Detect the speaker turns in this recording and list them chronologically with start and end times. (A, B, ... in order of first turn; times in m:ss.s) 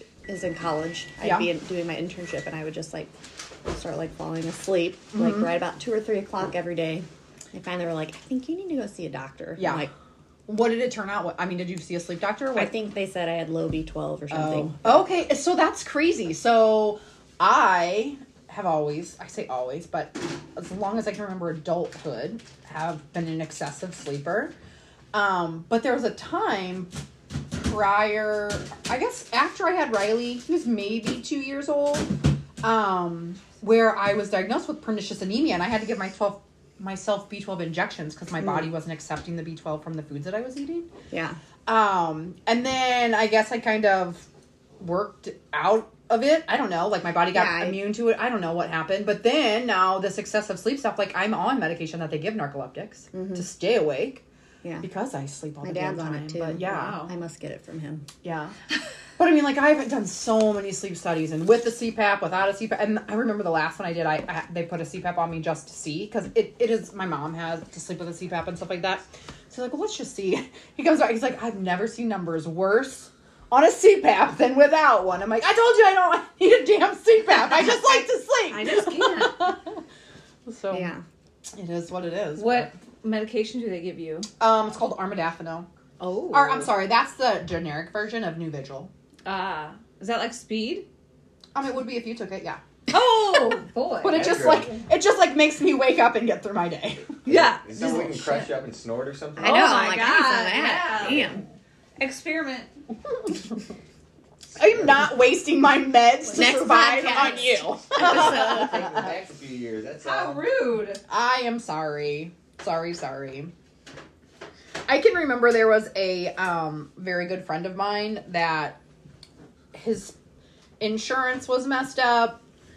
0:00.3-0:03.1 A
0:01.2-0:01.5 B
0:03.6-0:09.9 A
0:05.1-0:05.5 B
0:09.6-0:09.9 B
0:10.5-0:12.8 B
0:12.6-0:15.1 A
0:14.3-0:24.5 B
0:25.1-0:26.9 B
0:27.6-0:40.9 B
0:38.4-0:38.7 A
0:41.1-0:41.4 A
0:41.7-0:44.3 B
0:44.8-0:54.2 B
0:47.3-0:48.0 A
0:53.1-0:53.5 A
0:54.6-0:54.9 A
0:54.8-0:57.1 B
0:55.6-0:58.1 A
0:56.8-0:57.1 C
0:58.2-0:58.6 B
0:59.2-1:19.7 B
1:17.6-1:19.5 C
1:20.5-1:20.9 B
1:20.7-1:21.0 A
1:21.5-1:22.7 B
1:22.4-1:24.3 C
1:24.4-1:25.7 B
1:26.0-1:26.7 C
1:26.3-1:28.9 B
1:29.2-1:30.9 C
1:31.6-1:32.6 B
1:32.9-1:34.2 C
1:33.4-1:37.2 B
1:34.1-1:34.8 D
1:37.2-1:39.9 D
1:37.2-1:38.4 C
1:39.4-1:41.4 A
1:39.4-1:41.4 C
1:41.0-1:41.4 D
1:42.0-1:42.7 C
1:44.6-1:49.1 B
1:46.3-1:48.8 A
1:48.0-1:50.5 D
1:50.0-1:51.0 C
1:51.1-1:53.5 B
1:54.9-1:58.8 B
1:59.7-2:00.2 B
2:00.8-2:02.4 B